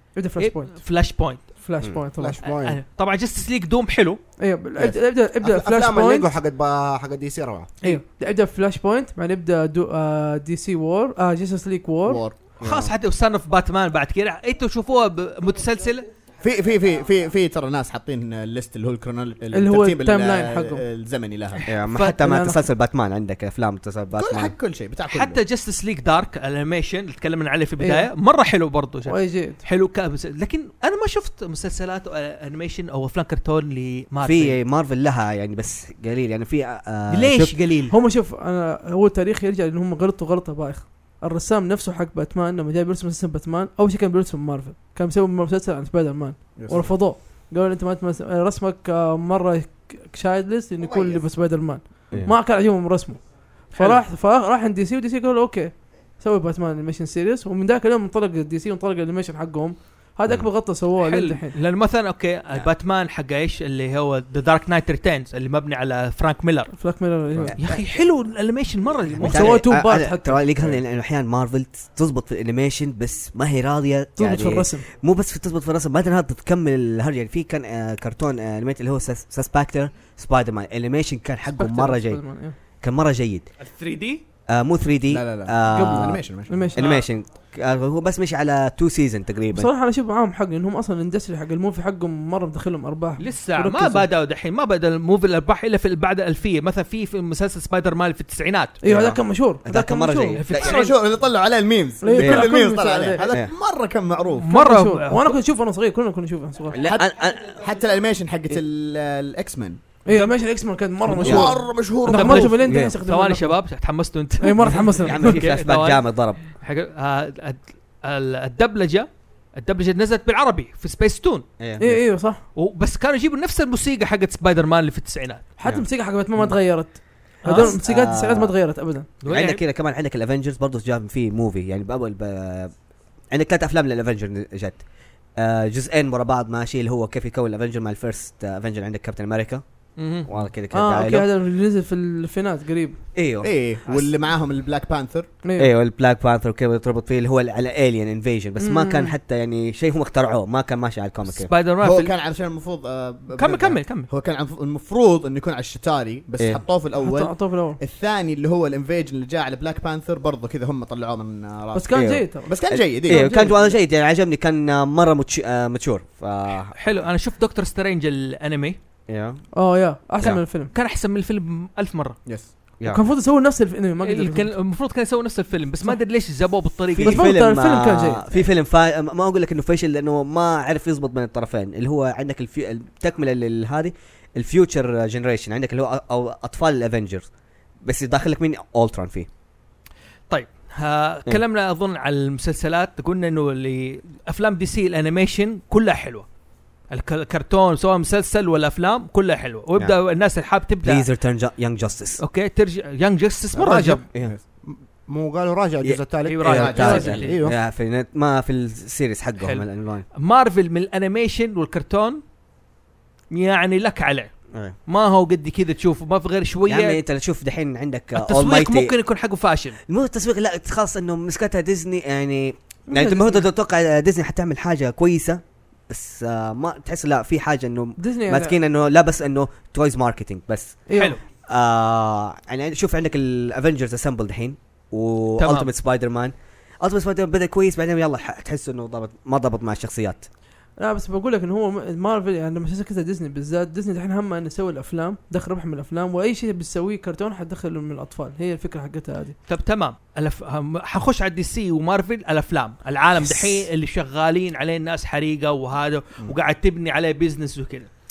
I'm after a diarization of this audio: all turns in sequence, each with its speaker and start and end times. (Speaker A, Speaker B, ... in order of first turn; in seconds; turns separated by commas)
Speaker A: 0.1-0.8, Speaker B: 0.4-1.4, Speaker A: 1.6-2.4, Speaker C: 2.1-2.8, Speaker B: 2.4-4.2, Speaker A: 4.4-6.3, Speaker D: 4.8-5.5, Speaker C: 5.4-7.7, Speaker A: 7.8-12.2, Speaker D: 12.0-12.3, Speaker B: 12.6-16.1, Speaker E: 12.6-12.9, Speaker D: 16.4-21.6, Speaker A: 19.5-20.8, Speaker B: 21.6-22.2, Speaker E: 21.7-24.5, Speaker A: 22.2-22.6, Speaker D: 24.2-25.4, Speaker B: 25.1-34.6, Speaker A: 27.8-28.1, Speaker A: 29.1-29.6, Speaker E: 34.2-37.5, Speaker B: 37.1-37.9, Speaker A: 37.9-61.5, Speaker D: 46.5-46.9, Speaker D: 50.8-51.2, Speaker B: 53.7-54.0, Speaker B: 61.0-66.7, Speaker A: 66.7-67.6, Speaker E: 67.4-67.8, Speaker B: 67.6-69.6, Speaker E: 69.2-82.2, Speaker A: 69.2-70.4, Speaker A: 74.2-74.8, Speaker A: 81.6-82.5, Speaker E: 82.8-83.5, Speaker B: 83.6-84.2, Speaker E: 84.5-86.2, Speaker D: 85.1-86.7, Speaker A: 85.7-86.8, Speaker E: 86.7-89.7, Speaker B: 86.8-87.0, Speaker A: 89.5-94.1, Speaker B: 93.2-98.8, Speaker A: 98.8-100.4, Speaker E: 98.8-100.9, Speaker B: 100.4-101.0, Speaker D: 100.5-104.5, Speaker A: 102.0-103.3, Speaker E: 102.2-102.5, Speaker B: 104.4-105.4, Speaker A: 104.5-106.8, Speaker E: 106.7-107.4, Speaker D: 106.7-109.8, Speaker A: 110.0-113.6, Speaker B: 110.1-110.3, Speaker D: 111.2-112.6, Speaker E: 111.2-111.5, Speaker B: 112.1-121.4, Speaker E: 112.6-112.9, Speaker A: 114.4-115.4, Speaker E: 114.7-116.4, Speaker E: 121.6-121.9, Speaker A: 121.8-122.4, Speaker B: 122.5-125.5, Speaker A: 125.6-129.1, Speaker E: 125.6-126.5, Speaker E: 127.4-128.5, Speaker B: 127.4-127.7, Speaker B: 129.2-129.6, Speaker E: 129.3-132.7, Speaker E: 133.3-134.8, Speaker E: 135.4-139.6, Speaker B: 140.0-140.3, Speaker E: 140.2-141.3, Speaker A: 140.7-143.0, Speaker E: 143.1-143.5, Speaker D: 143.4-145.3, Speaker B: 143.8-144.1, Speaker A: 145.4-145.7, Speaker E: 145.6-151.5, Speaker A: 148.6-149.1, Speaker B: 151.3-152.1, Speaker D: 151.8-163.4, Speaker B: 153.3-154.1, Speaker A: 157.0-157.8, Speaker A: 161.7-162.5, Speaker E: 161.9-166.7, Speaker A: 163.0-163.7, Speaker B: 166.7-168.8, Speaker E: 169.1-169.4, Speaker A: 169.5-170.7, Speaker B: 170.7-172.2, Speaker A: 172.9-174.5, Speaker B: 174.0-177.3, Speaker E: 176.9-187.3, Speaker A: 177.0-178.2, Speaker E: 187.8-189.3, Speaker B: 190.3-196.2, Speaker B: 196.9-201.1, Speaker E: 200.8-202.2, Speaker B: 202.2-204.0, Speaker E: 203.9-204.3, Speaker D: 204.2-204.4, Speaker C: 204.7-207.6, Speaker E: 205.8-210.0, Speaker B: 206.2-207.3, Speaker D: 206.5-207.3, Speaker B: 209.4-212.2, Speaker B: 213.3-214.3, Speaker B: 214.9-217.0, Speaker E: 216.7-218.9, Speaker B: 218.2-219.8, Speaker E: 219.9-230.9, Speaker A: 222.9-223.4, Speaker A: 228.0-228.6, Speaker A: 230.9-231.2, Speaker B: 230.9-231.2, Speaker E: 231.5-240.3, Speaker B: 235.4-235.7, Speaker A: 240.8-249.3, Speaker B: 249.5-257.9